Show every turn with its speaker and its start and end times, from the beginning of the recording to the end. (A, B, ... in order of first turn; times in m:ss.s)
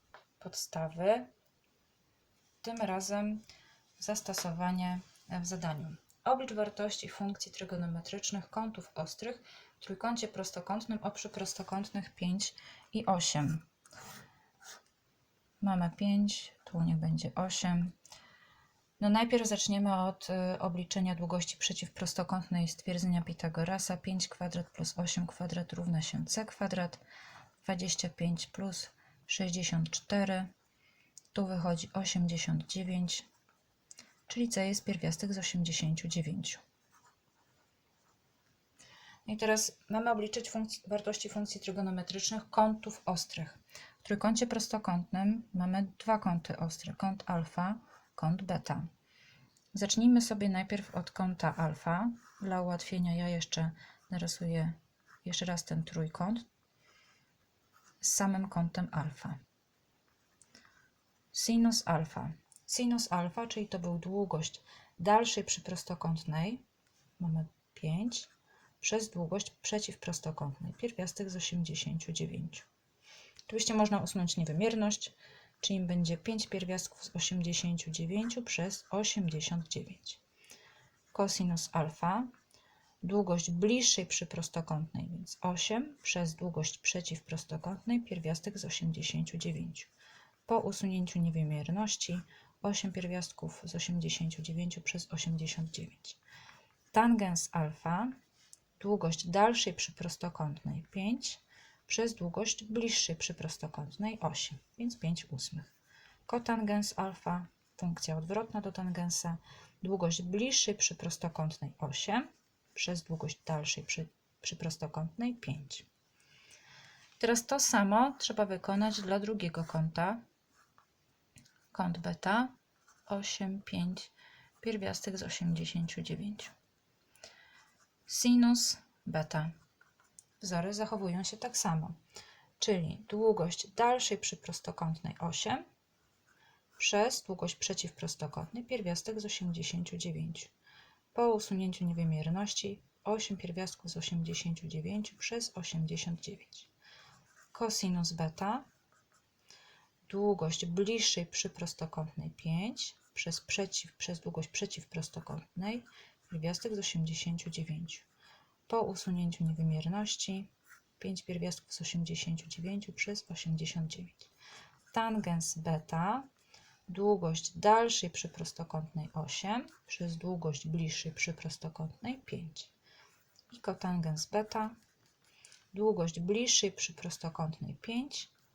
0:00.4-0:01.3 A
0:02.6-0:03.4 A
0:04.0-0:13.6 A
0:15.6-0:17.9 A
0:19.0-0:27.0 A
0:27.6-0:30.5 A
0:31.3-0:33.3 A
0:34.3-0:36.6 A
0:39.3-0:48.9 A
0:49.7-0:56.5 A
0:58.0-0:59.4 A
1:01.3-1:06.6 A
1:07.2-1:08.3 A
1:08.8-1:12.7 A
1:13.5-1:20.2 A
1:21.1-1:22.3 A
1:23.0-1:29.9 A
1:30.5-1:36.2 A
1:36.9-1:38.2 A
1:38.8-1:45.7 A
1:46.3-1:55.9 A
1:57.2-2:00.2 A
2:01.7-2:02.5 A
2:03.1-2:06.5 A
2:08.1-2:09.5 A
2:10.4-2:12.0 A
2:12.6-2:15.6 A
2:16.8-2:20.5 A
2:21.1-2:26.7 A
2:27.5-2:28.7 A
2:30.1-2:38.1 A
2:38.7-2:44.3 A
2:44.9-2:46.3 A
2:46.9-2:52.7 A
2:53.5-2:54.8 A
2:55.7-2:58.3 A